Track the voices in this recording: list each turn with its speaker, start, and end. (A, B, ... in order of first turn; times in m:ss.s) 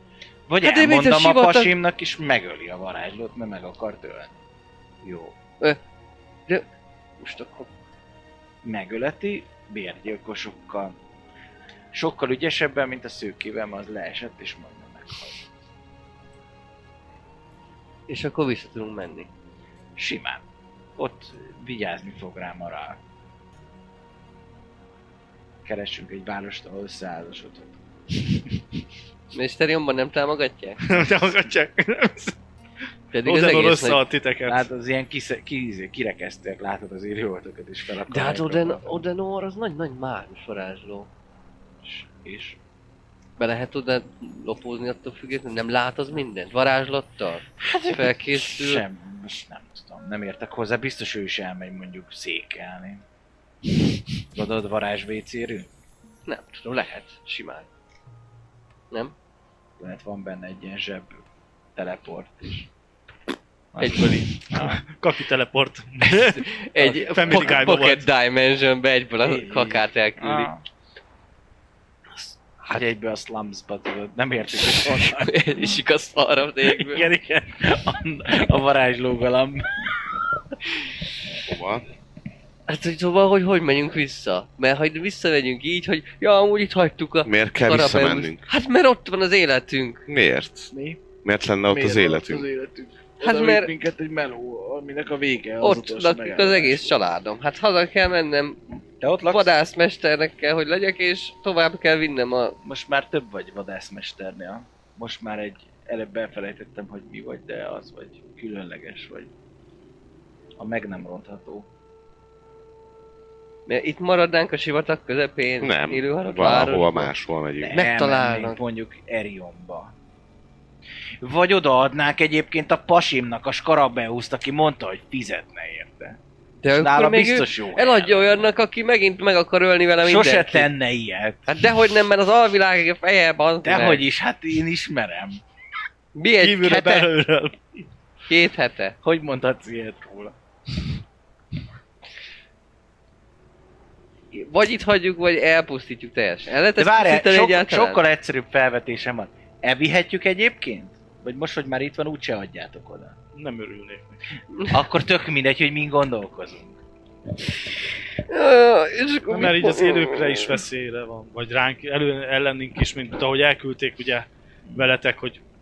0:00.5-0:04.3 A
0:00.6-0:01.8 B
0:05.0-0:05.3 A
0:07.2-0:07.7 B
0:08.6-0:11.0 A
0:11.9-0:15.5 A
0:18.1-0:19.3 B
0:20.0-0:20.4 A
0:21.0-0:23.0 A
0:25.6-0:27.8 A
0:29.3-0:30.9 B
0:30.8-0:32.4 C
0:33.1-0:34.0 B
0:33.2-0:34.7 C
0:34.5-0:39.0 A
0:38.1-0:41.1 B
0:41.8-0:42.6 A
0:43.4-0:48.8 B
0:47.6-0:53.0 A
0:54.3-0:55.7 A
0:56.3-0:57.7 B
0:59.8-1:01.2 A
1:01.8-1:02.7 A
1:03.7-1:04.8 A
1:03.8-1:04.3 B
1:04.5-1:06.5 C
1:06.2-1:10.5 B
1:06.8-1:07.7 A
1:07.1-1:08.1 C
1:09.2-1:10.6 A
1:12.6-1:15.8 A
1:14.6-1:17.1 B
1:16.7-1:19.9 A
1:21.5-1:21.8 D
1:22.7-1:30.0 B
1:27.2-1:28.4 D
1:30.1-1:30.7 D
1:30.7-1:31.0 A
1:31.2-1:32.5 D
1:31.7-1:37.0 A
1:33.2-1:33.7 B
1:35.6-1:38.6 B
1:39.0-1:39.5 A
1:39.3-1:42.6 B
1:42.6-1:49.3 A
1:50.6-1:51.7 A
1:53.7-1:57.1 B
1:55.6-1:57.8 D
1:56.3-1:56.8 A
1:57.6-1:59.9 A
1:57.7-1:58.6 B
2:01.2-2:06.2 A
2:06.6-2:10.7 B
2:06.8-2:08.5 A
2:10.0-2:11.5 A
2:11.5-2:14.0 B
2:13.6-2:15.4 A
2:16.2-2:17.1 B
2:16.4-2:17.6 C
2:18.3-2:19.0 B
2:19.0-2:20.4 A
2:24.3-2:28.0 B
2:26.8-2:33.2 A
2:33.4-2:34.2 C
2:34.7-2:36.8 A
2:38.3-2:40.6 B
2:39.3-2:45.4 C